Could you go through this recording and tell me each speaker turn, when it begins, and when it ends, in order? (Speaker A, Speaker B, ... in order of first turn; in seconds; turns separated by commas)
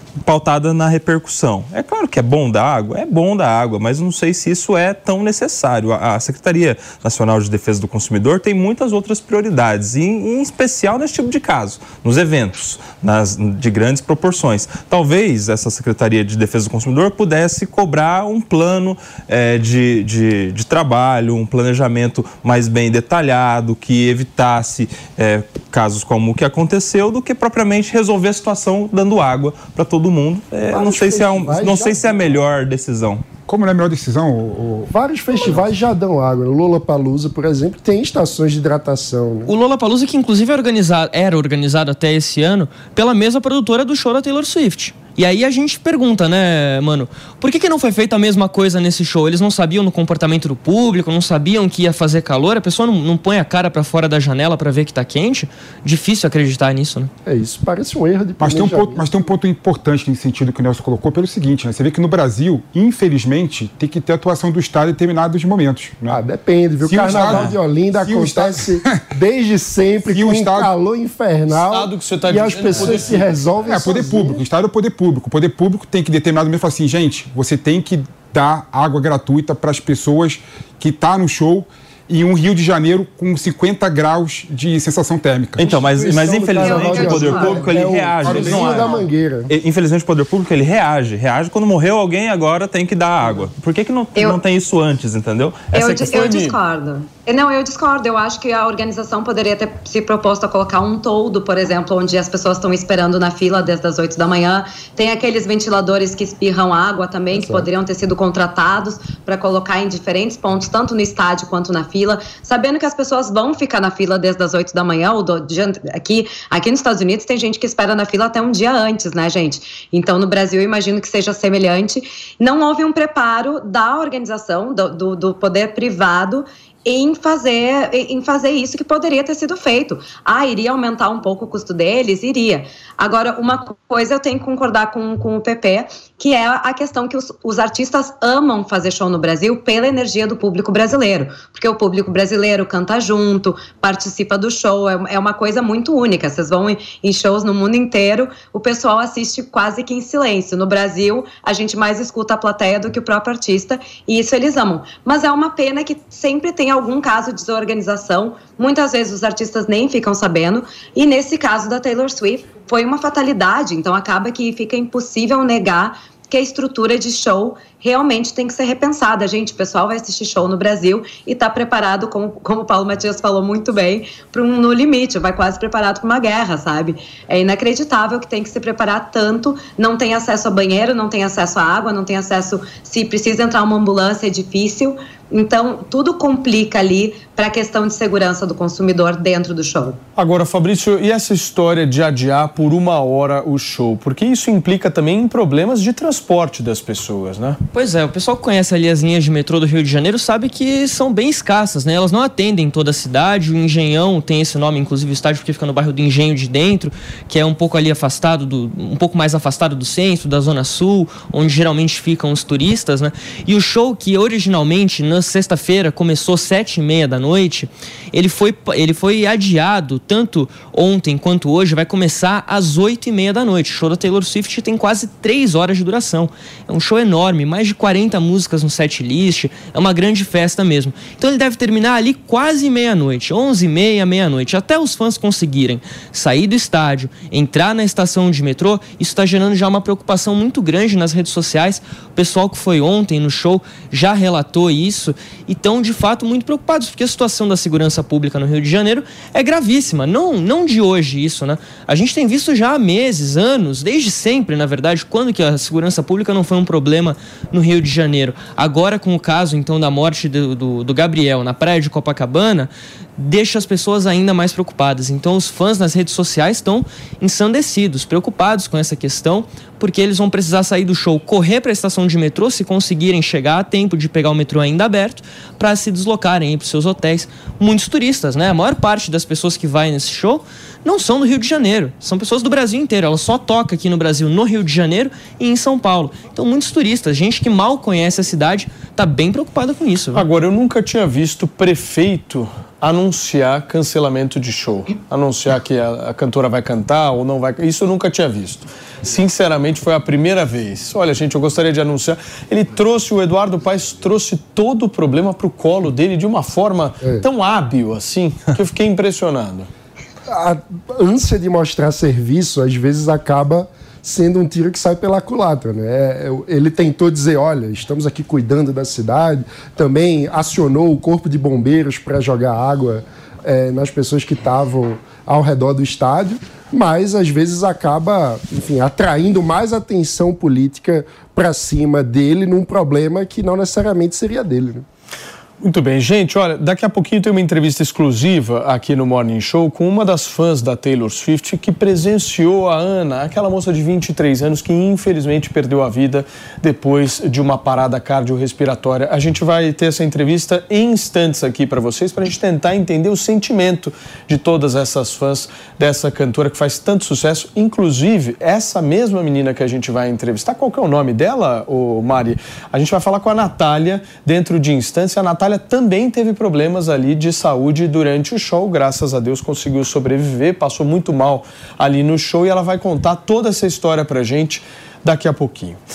Speaker A: 0.2-33.2, Speaker B: 30.7-32.0, Speaker C: 33.5-34.9, Speaker B: 34.9-39.5, Speaker D: 39.5-57.1, Speaker B: 57.2-59.0, Speaker C: 58.4-66.2, Speaker B: 66.1-74.4, Speaker C: 66.8-69.0, Speaker A: 67.2-67.5, Speaker C: 70.1-70.7, Speaker E: 71.6-73.3, Speaker C: 73.7-85.6, Speaker B: 85.6-89.5, Speaker A: 85.6-95.7, Speaker F: 86.6-87.7, Speaker C: 88.2-89.0, Speaker E: 95.7-96.6, Speaker F: 95.7-190.0, Speaker B: 107.3-107.7, Speaker E: 190.2-197.6, Speaker D: 197.7-290.3, Speaker E: 290.1-309.7, Speaker B: 310.3-334.9, Speaker E: 335.6-375.8